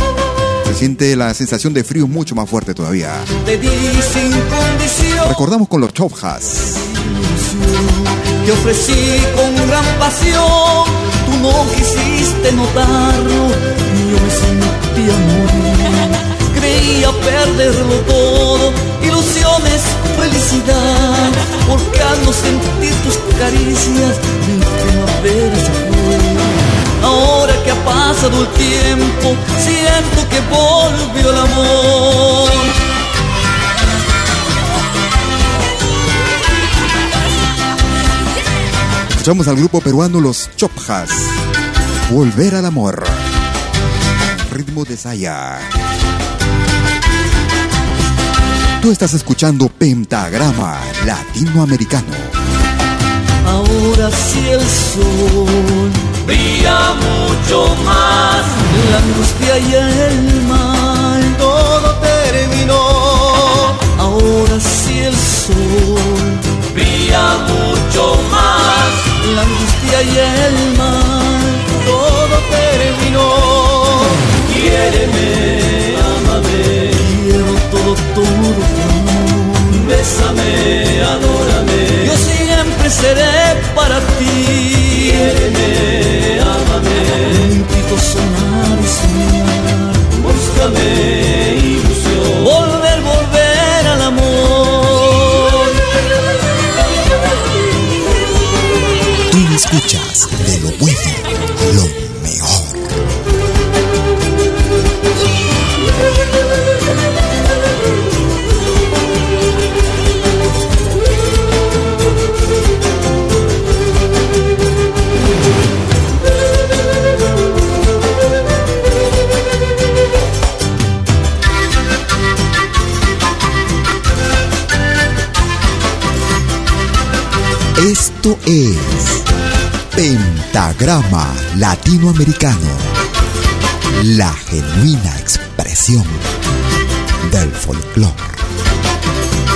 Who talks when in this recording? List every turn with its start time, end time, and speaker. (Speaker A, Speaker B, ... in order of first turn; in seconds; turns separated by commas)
Speaker A: 0.6-3.3, Speaker B: 3.4-5.4, Speaker A: 5.2-6.8, Speaker B: 6.8-32.7, Speaker A: 39.1-41.4, Speaker A: 42.1-43.3, Speaker A: 44.2-45.7, Speaker A: 48.8-52.4, Speaker B: 53.4-95.7, Speaker A: 99.3-103.0, Speaker A: 127.7-129.2, Speaker A: 129.9-132.9, Speaker A: 133.9-136.2, Speaker A: 137.2-138.4